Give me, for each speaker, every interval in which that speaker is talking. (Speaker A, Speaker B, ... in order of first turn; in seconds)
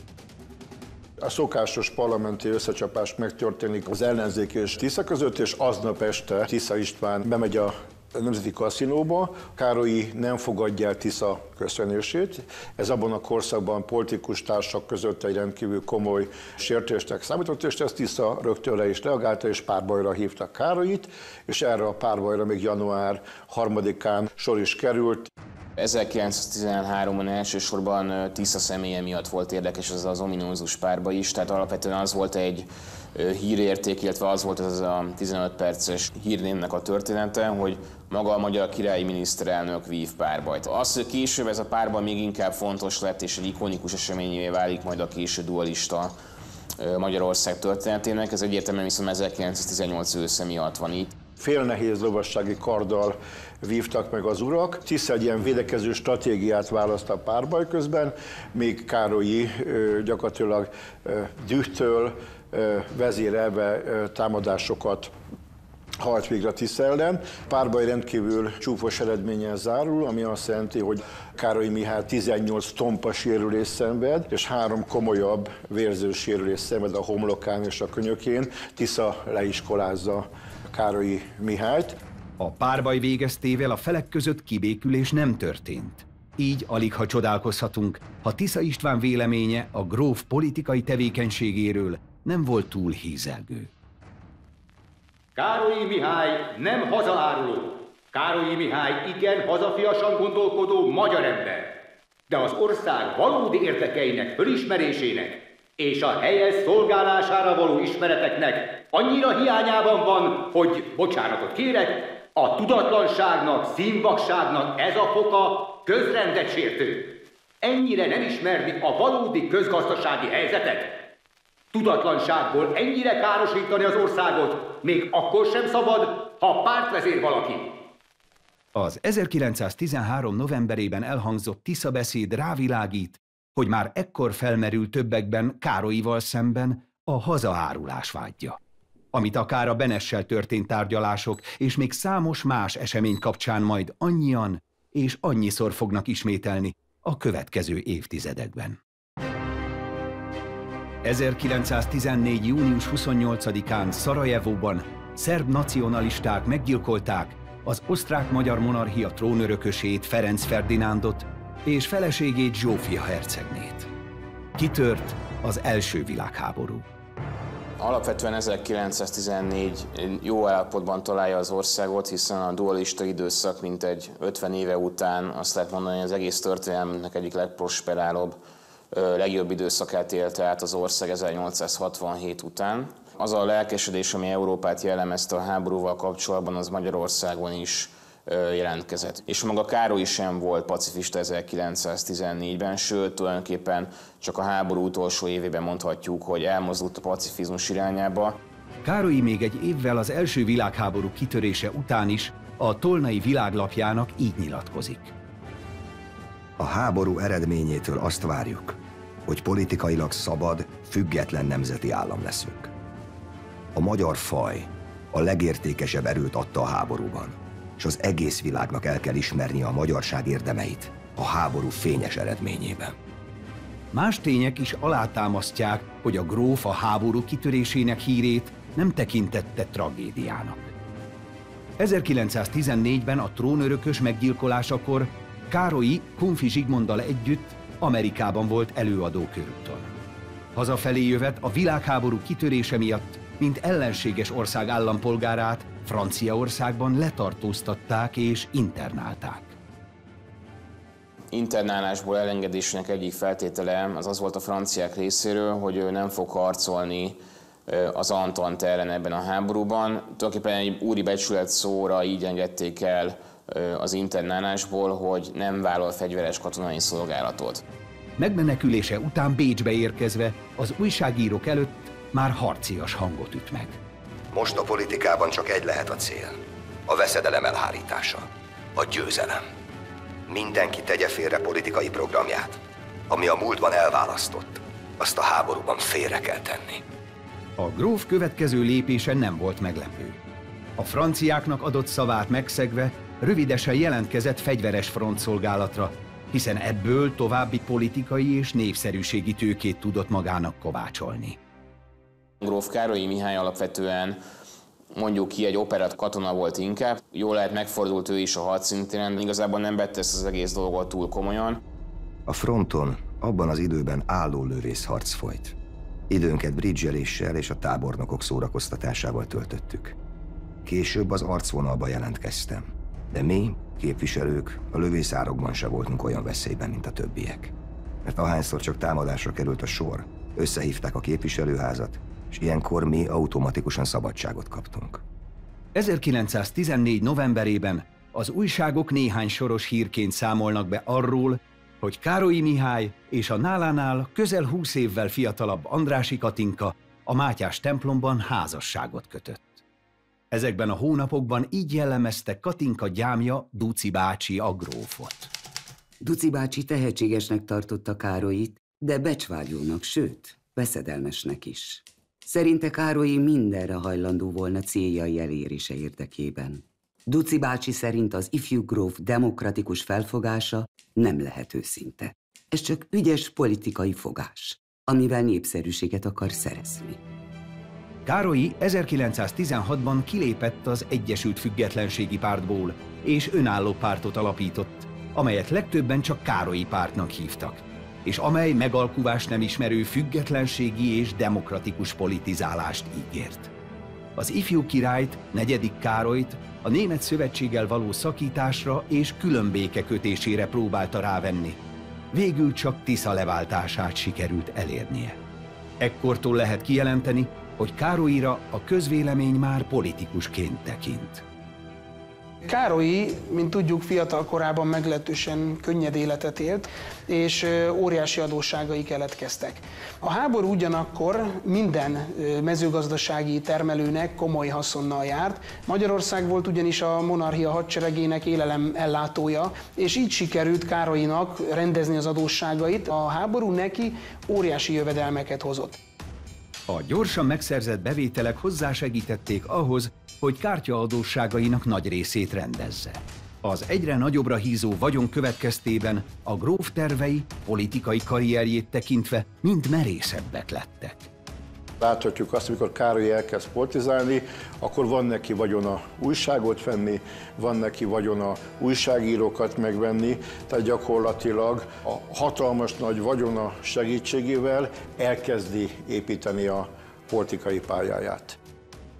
Speaker A: 1.2-25.3, 51.4-65.1, 66.0-82.0, 451.8-468.4
Speaker B: 25.8-46.1, 46.8-51.1, 167.8-178.4, 178.9-198.4, 251.3-267.6, 302.4-304.2, 304.9-311.6
Speaker C: 82.4-93.7, 128.7-138.6, 139.1-148.8, 151.0-163.9, 164.5-166.8, 198.8-205.1, 223.9-230.7, 231.8-239.9, 240.5-249.6, 268.2-273.8, 287.6-290.2, 290.8-301.4, 335.7-349.6, 350.3-355.3, 378.1-393.5, 394.1-401.6, 402.1-405.2, 405.8-411.2, 436.7-451.1
Speaker D: 95.3-101.8, 102.3-121.1, 121.7-127.8
Speaker E: 206.6-212.7, 213.7-222.9, 274.3-279.4, 280.3-286.8, 312.2-315.6, 316.1-319.9, 320.6-327.5, 328.0-335.0
Speaker F: 356.0-377.0
Speaker G: 412.4-435.8